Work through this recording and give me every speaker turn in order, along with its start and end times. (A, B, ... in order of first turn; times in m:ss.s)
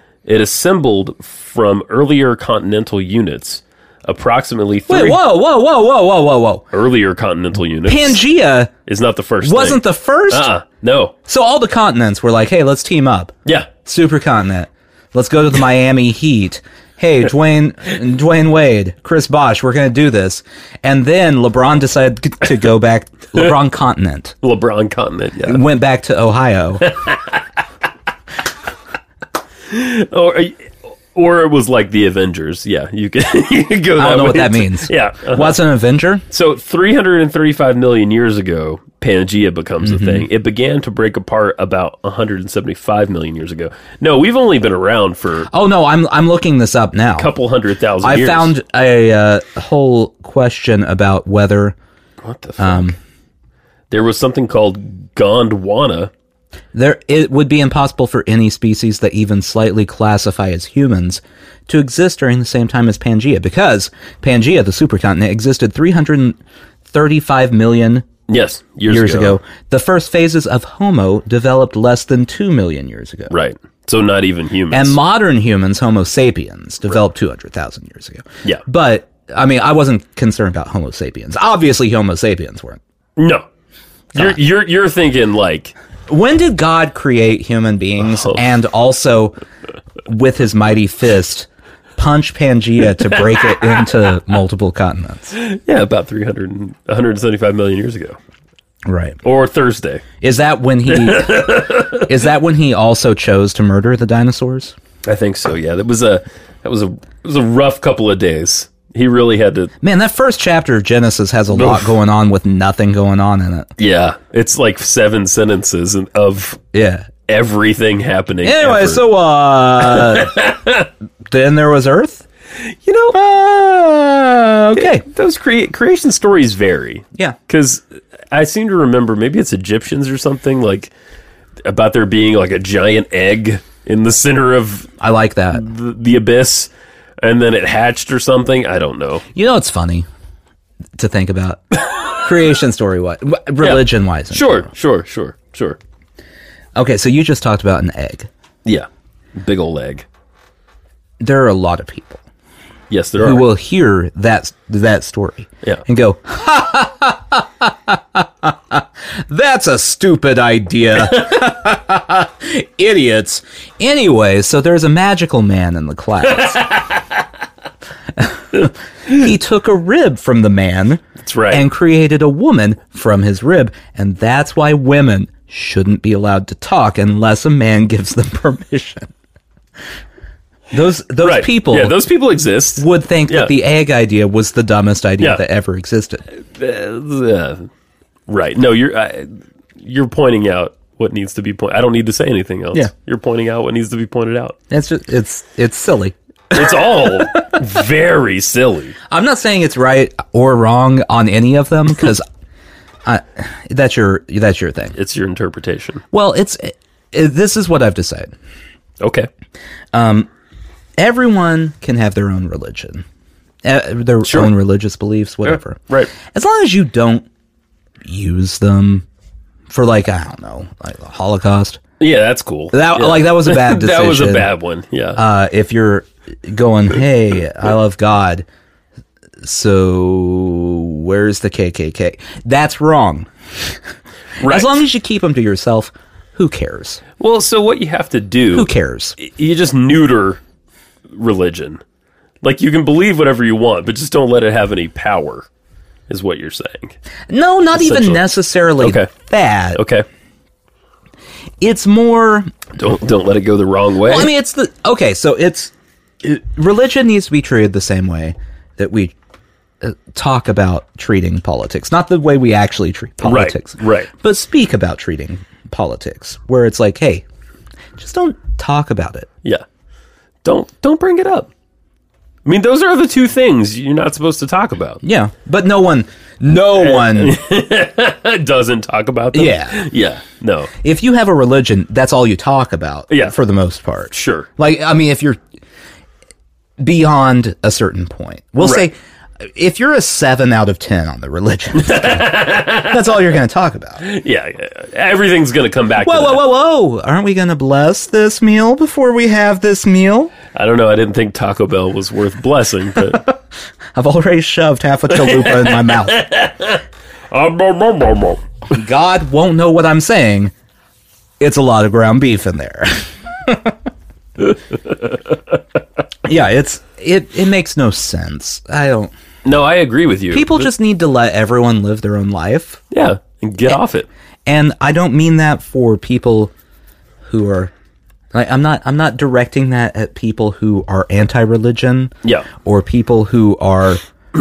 0:00.2-0:05.2 A
0:04.9-0:06.6 B
0:06.7-0:08.2 A
0:07.9-0:08.7 B
0:08.9-0:11.2 A
0:09.4-0:10.5 B
0:11.3-0:24.4 B
0:24.4-0:25.6 A
0:25.4-0:26.9 B
0:26.8-0:27.4 A
0:29.7-0:35.6 A
0:34.0-0:36.2 B
0:36.3-0:45.5 A
0:39.8-0:40.3 B
0:45.5-0:47.3 B
0:47.2-0:48.5 A
0:48.0-0:51.8 B
0:52.2-0:53.0 A
0:52.6-0:53.0 B
0:53.9-0:56.1 A
0:56.7-1:08.1 B
1:08.3-1:09.4 A
1:08.9-1:13.3 B
1:13.3-1:15.0 A
1:14.7-1:22.8 B
1:23.2-1:23.5 A
1:24.1-1:25.7 A
1:26.1-1:29.4 B
1:28.0-1:28.4 A
1:30.0-1:35.4 B
1:35.3-1:38.2 A
1:38.9-1:39.2 B
1:39.2-1:40.0 A
1:40.2-1:44.8 B
1:40.9-1:42.1 A
1:45.0-1:49.7 A
1:49.8-1:53.7 B
1:51.5-1:52.0 A
1:53.8-1:56.6 A
1:56.7-1:57.1 B
1:57.3-1:59.0 A
1:58.4-2:00.4 B
1:59.8-2:00.9 A
2:01.3-2:02.2 B
2:02.7-2:03.2 A
2:03.1-2:05.0 B
2:04.8-2:10.9 A
2:11.6-2:14.9 A
2:15.0-2:15.6 B
2:15.5-2:19.2 A
2:19.3-2:20.1 B
2:21.0-2:24.7 B
2:23.6-2:25.8 A
2:26.8-2:28.3 B
2:28.6-2:30.1 A
2:31.2-2:32.2 B
2:32.9-2:33.5 A
2:33.2-2:46.8 B
2:48.2-2:59.1 B
2:51.2-2:51.6 A
3:00.7-3:02.0 B
3:01.2-3:03.5 A
3:02.8-3:06.2 B
3:06.4-3:07.7 A
3:08.3-3:14.6 A
3:14.7-3:17.6 B
3:16.5-3:19.0 A
3:19.1-3:22.2 B
3:23.0-3:25.0 B
3:25.0-3:26.0 A
3:26.1-3:28.3 B
3:29.0-3:29.3 A
3:29.9-3:30.3 B
3:31.0-3:33.0 B
3:33.6-3:37.3 B
3:34.2-3:34.5 A
3:35.5-3:36.1 A
3:38.0-3:39.0 B
3:39.7-3:41.8 B
3:42.0-3:45.2 A
3:42.7-3:44.5 B
3:45.2-3:48.5 B
3:49.4-3:53.3 B
3:54.4-3:54.8 A
3:54.4-3:57.0 B
3:57.2-4:00.4 A
3:58.5-3:59.2 B
4:01.1-4:01.8 A
4:02.4-4:05.5 A
4:06.1-4:07.0 A
4:07.3-4:09.8 B
4:07.7-4:08.3 A
4:08.8-4:09.1 A
4:09.8-4:10.0 A
4:11.6-4:12.5 B
4:12.8-4:14.3 A
4:14.0-4:19.2 B
4:19.8-4:27.2 B
4:23.2-4:24.1 A
4:28.0-4:29.3 B
4:30.4-4:31.5 A
4:32.4-4:35.0 A
4:35.0-4:37.4 B
4:36.7-4:40.7 A
4:39.3-4:39.9 B
4:40.8-4:45.4 B
4:43.1-4:43.4 A
4:44.1-4:44.5 A
4:46.8-4:54.0 B
4:51.8-4:53.1 A
4:54.0-4:56.4 A
4:56.0-5:00.3 B
5:00.5-5:03.2 A
5:04.0-5:06.2 B
5:05.1-5:08.4 A
5:08.7-5:10.5 B
5:11.4-5:13.8 B
5:16.2-5:19.1 B
5:19.4-5:20.7 A
5:20.3-5:22.8 B
5:22.9-5:24.1 A
5:24.5-5:26.5 B
5:27.2-5:27.7 B
5:28.3-5:34.0 B